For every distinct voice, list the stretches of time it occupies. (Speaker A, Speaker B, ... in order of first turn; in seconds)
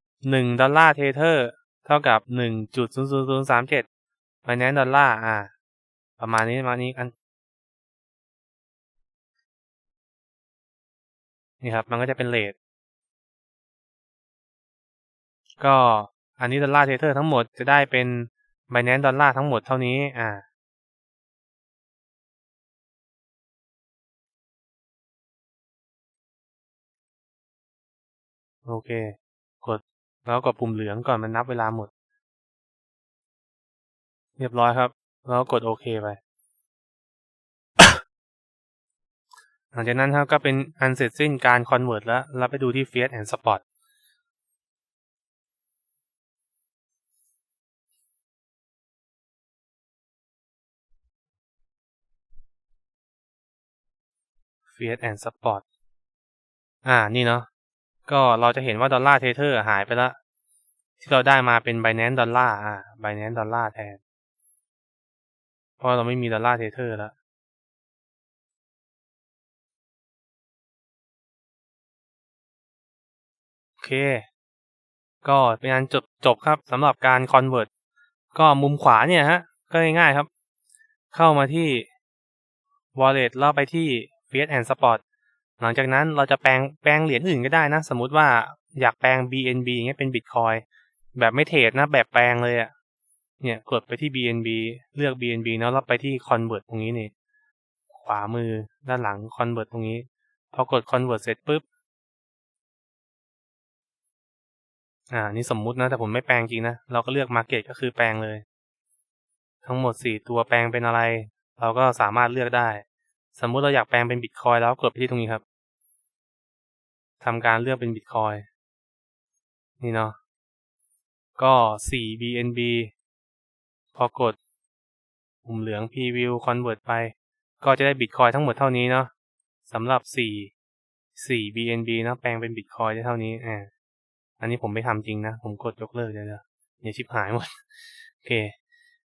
Speaker A: 0.2-3.9, 4.5-5.5, 6.2-7.1, 11.6-12.6, 15.6-20.4, 28.6-31.9, 34.4-36.2, 39.7-43.6, 54.7-55.6, 56.9-57.5, 58.1-60.2, 61.0-64.0, 65.8-67.1, 73.8-74.3, 75.2-77.7, 78.3-80.3, 81.1-81.9, 83.0-85.0, 85.6-90.6, 91.2-92.7, 93.4-97.1, 97.9-101.7, 105.1-108.4, 109.6-115.4, 117.2-118.5, 119.8-120.2, 121.4-122.9, 123.9-124.4, 125.5-129.1, 129.7-130.5, 131.2-133.7, 134.4-137.6, 138.2-138.5